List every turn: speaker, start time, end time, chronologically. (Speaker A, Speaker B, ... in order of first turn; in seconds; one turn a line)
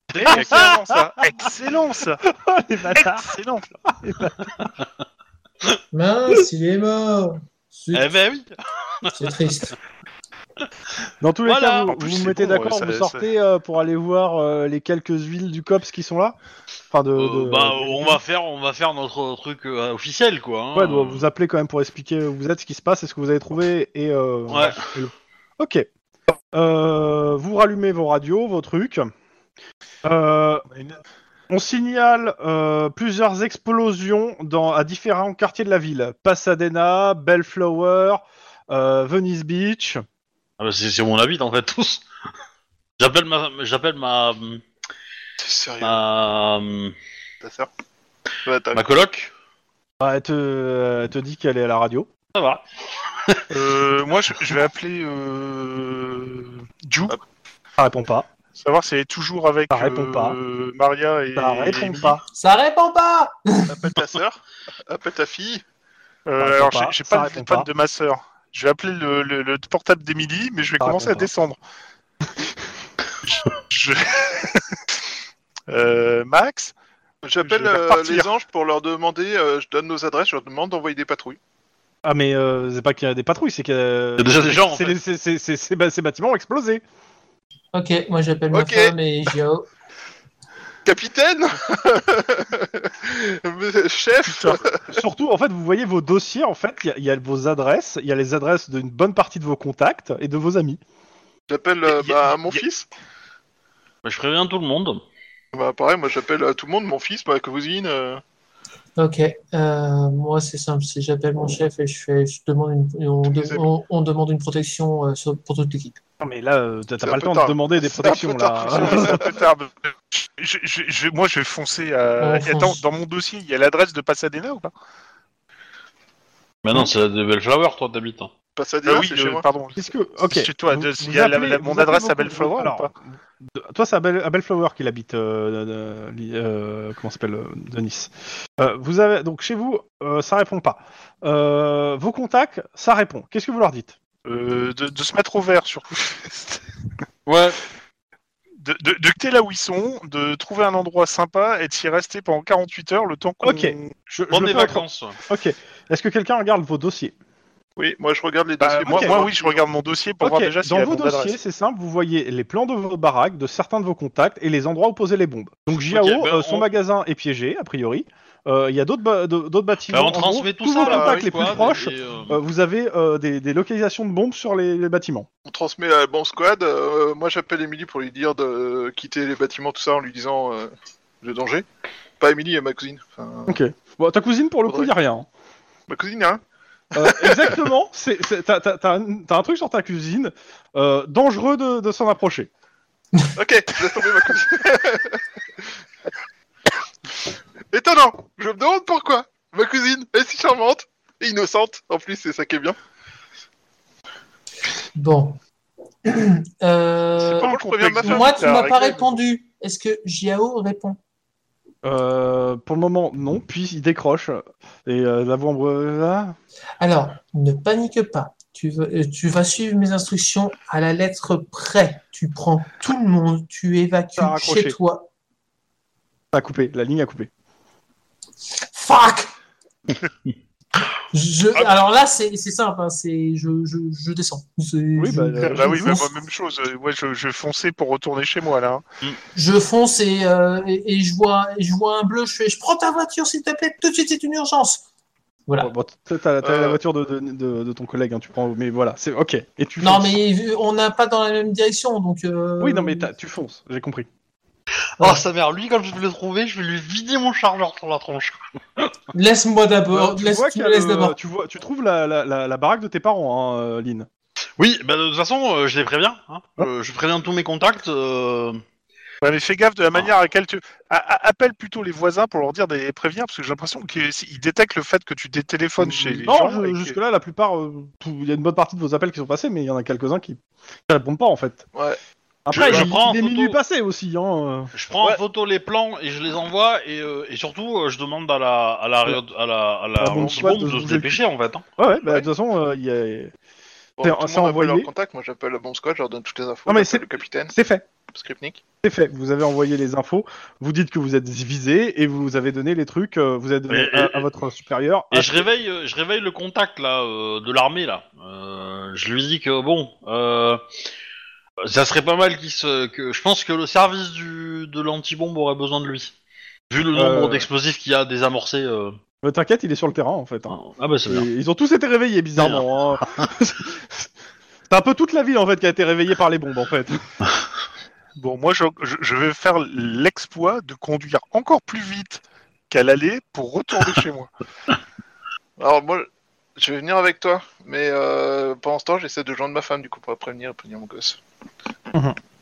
Speaker A: 0.1-1.0
Speaker B: 0.1-2.2
Speaker A: 2.3-3.4
Speaker B: 2.9-3.7
Speaker A: 3.9-4.7
Speaker C: 5.9-8.1
Speaker D: 7.9-9.5
Speaker C: 9.1-9.8
Speaker A: 11.2-16.4
Speaker D: 11.5-11.9
Speaker B: 11.9-13.2
Speaker A: 16.9-18.2
Speaker D: 17.2-21.3
Speaker A: 20.7-25.9
Speaker D: 24.5-24.9
Speaker A: 26.5-29.1
Speaker A: 30.0-30.6
Speaker B: 30.7-31.0
Speaker A: 31.5-40.0
Speaker D: 40.6-42.1
Speaker D: 43.0-44.6
Speaker E: 45.4-46.0
Speaker D: 45.8-47.0
Speaker E: 47.4-47.7
Speaker E: 48.4-49.0
Speaker D: 48.7-49.3
Speaker A: 50.0-52.1
Speaker D: 52.3-53.6
Speaker B: 53.5-57.1
Speaker A: 57.8-58.3
Speaker B: 58.6-62.2
Speaker A: 59.7-60.4
Speaker A: 61.4-62.2
Speaker C: 62.3-64.0
Speaker E: 63.7-65.6
Speaker B: 66.3-71.6
Speaker A: 66.4-67.7
Speaker A: 70.8-71.3
Speaker B: 73.3-74.6
Speaker B: 75.7-76.7
Speaker E: 77.2-81.4
Speaker B: 77.4-78.3
Speaker A: 82.0-86.8
Speaker D: 84.2-85.0
Speaker C: 87.7-89.7
Speaker E: 88.5-89.0
Speaker E: 90.8-95.0
Speaker B: 94.3-94.6
Speaker A: 94.9-100.8
Speaker E: 101.5-102.9
Speaker D: 101.9-102.6
Speaker D: 104.0-105.0
Speaker E: 105.5-108.2
Speaker C: 109.0-116.0
Speaker E: 113.2-113.7
Speaker A: 116.2-119.2
Speaker E: 117.0-119.3
Speaker B: 118.7-124.7
Speaker C: 122.2-122.8
Speaker D: 126.6-128.3
Speaker E: 128.6-129.5
Speaker B: 128.9-132.9
Speaker A: 129.8-133.0
Speaker A: 133.5-144.0
Speaker B: 144.3-146.6
Speaker D: 147.3-147.6
Speaker B: 148.6-153.9
Speaker A: 153.4-157.1
Speaker D: 154.3-155.2
Speaker E: 157.8-159.7
Speaker B: 158.6-161.4
Speaker A: 158.8-159.3
Speaker A: 160.2-175.3
Speaker D: 165.8-166.7
Speaker D: 169.9-172.4
Speaker E: 170.8-171.6
Speaker E: 175.5-181.7
Speaker E: 182.2-183.6
Speaker A: 183.5-185.3
Speaker E: 184.7-184.9
Speaker E: 185.9-186.4
Speaker A: 186.9-192.5
Speaker E: 187.0-187.6
Speaker E: 193.3-195.2
Speaker E: 197.7-202.8
Speaker C: 204.9-205.4
Speaker C: 206.1-211.0
Speaker B: 207.2-209.2
Speaker E: 207.2-208.5
Speaker A: 211.8-216.4
Speaker C: 216.8-225.1
Speaker A: 224.2-224.8
Speaker A: 226.3-227.3
Speaker C: 228.7-229.3
Speaker C: 231.1-236.1
Speaker A: 235.0-236.0
Speaker B: 235.4-238.8
Speaker C: 239.3-244.8
Speaker A: 245.6-250.2
Speaker E: 246.4-246.8
Speaker C: 249.8-253.1
Speaker A: 252.6-254.1
Speaker D: 255.0-258.9
Speaker C: 259.1-261.2
Speaker A: 259.9-264.1
Speaker D: 264.6-268.6
Speaker B: 269.2-277.0
Speaker A: 275.8-281.7
Speaker A: 282.4-285.2
Speaker D: 282.5-283.6
Speaker D: 284.7-291.6
Speaker A: 290.0-291.2
Speaker A: 291.8-293.3
Speaker E: 294.0-297.6
Speaker A: 294.0-294.9
Speaker A: 296.7-297.8
Speaker E: 298.1-298.6
Speaker A: 298.8-305.5
Speaker D: 303.7-304.3
Speaker D: 305.1-310.6
Speaker D: 311.6-316.1
Speaker D: 316.7-319.0
Speaker A: 316.9-317.5
Speaker A: 319.2-324.1
Speaker D: 320.5-321.3
Speaker D: 322.4-323.2
Speaker A: 324.7-327.0
Speaker B: 328.2-334.3
Speaker E: 335.6-341.2